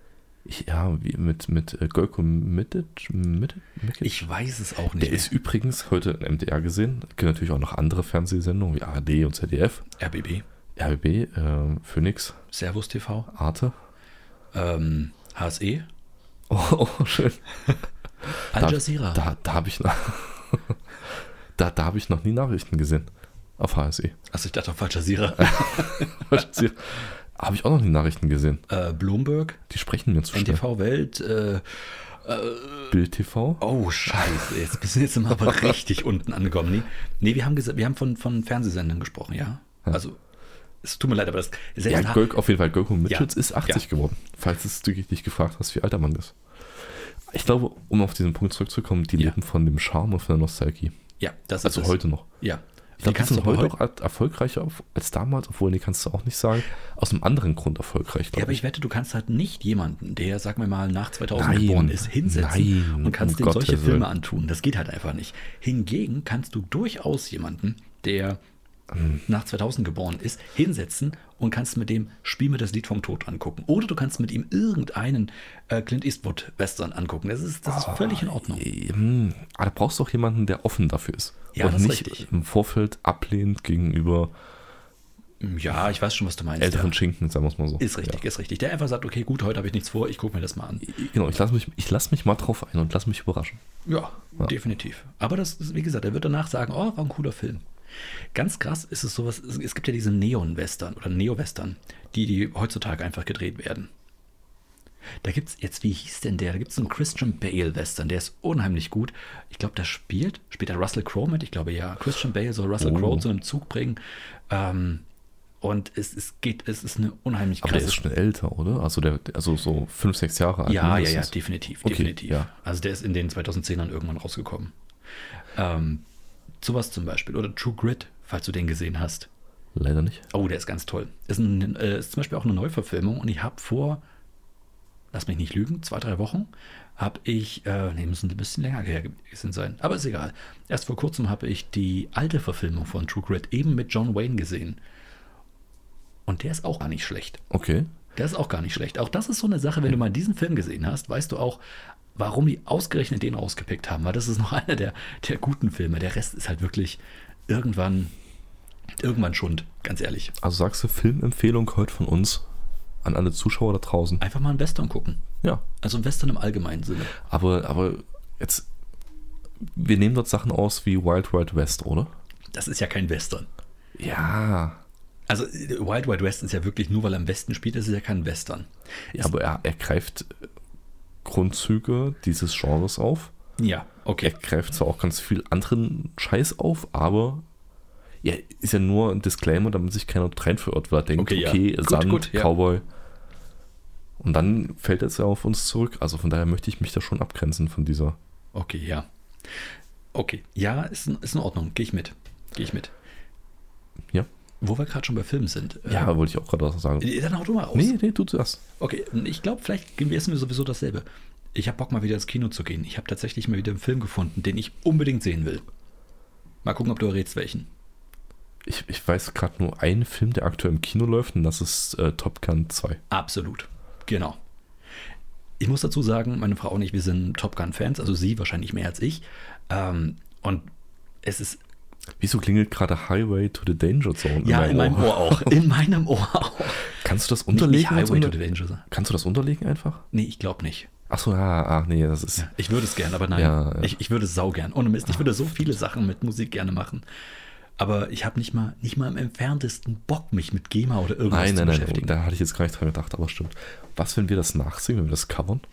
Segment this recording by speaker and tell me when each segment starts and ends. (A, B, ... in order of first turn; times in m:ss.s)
0:00.4-0:04.3 A
0:04.0-0:05.3 B
0:05.0-0:09.9 A
0:10.0-0:10.4 B
0:10.8-0:12.4 A
0:12.5-0:13.3 B
0:13.3-0:13.7 A
0:14.5-0:15.8 B
0:16.5-0:17.4 A
0:18.4-0:19.2 B
0:18.5-0:23.1 A
0:23.6-0:24.2 A
0:24.3-0:26.4 B
0:25.4-0:28.6 A
0:28.7-0:29.6 B
0:29.7-0:30.6 A
0:30.3-0:33.0 B
0:32.9-0:34.5 A
0:33.6-0:40.2 B
0:35.5-0:35.7 A
0:40.8-0:42.3 B
0:41.8-0:51.0 A
0:43.1-0:43.8 B
0:51.2-0:53.8 B
0:51.6-0:52.3 A
0:53.0-0:58.6 A
0:58.3-1:08.4 B
1:01.3-1:04.1 A
1:08.9-1:09.2 A
1:09.2-1:18.7 B
1:17.7-1:24.3 A
1:21.5-1:22.3 B
1:25.4-1:27.0 B
1:26.6-1:28.2 A
1:27.8-1:31.0 B
1:30.8-1:33.6 A
1:33.8-1:37.6 B
1:38.3-1:43.9 B
1:45.2-1:55.0 B
1:52.8-1:53.2 A
1:55.6-1:58.0 B
1:57.6-2:02.5 A
2:00.7-2:04.7 B
2:05.5-2:06.0 B
2:06.6-2:09.3 B
2:09.7-2:10.3 A
2:10.3-2:14.0 B
2:15.1-2:24.8 B
2:26.3-2:27.4 B
2:27.5-2:27.9 A
2:28.1-2:31.6 B
2:32.2-2:38.1 B
2:39.0-2:40.3 B
2:40.4-2:42.4 A
2:43.0-2:44.2 A
2:44.2-2:45.2 B
2:45.8-2:47.2 B
2:47.1-2:48.7 A
2:49.6-2:52.1 A
2:52.5-2:53.5 B
2:54.0-2:54.8 A
2:55.3-2:59.3 B
2:59.2-3:00.4 A
3:01.2-3:03.3 A
3:03.6-3:04.3 B
3:04.2-3:07.4 A
3:08.2-3:12.8 A
3:11.2-3:12.5 B
3:14.2-3:18.2 A
3:18.5-3:22.9 B
3:24.6-3:26.1 B
3:25.9-3:27.2 A
3:27.0-3:27.9 B
3:27.7-3:28.6 A
3:28.8-3:35.6 B
3:36.6-3:37.7 B
3:38.6-3:43.0 A
3:43.1-3:44.4 B
3:45.6-3:50.6 B
3:51.2-3:51.6 B
3:52.2-3:55.6 A
3:54.4-3:56.9 B
3:56.9-4:00.0 A
3:57.5-3:58.8 B
4:00.1-4:00.9 B
4:01.1-4:02.5 A
4:02.4-4:07.0 B
4:03.3-4:03.9 A
4:07.8-4:12.1 B
4:11.3-4:15.6 A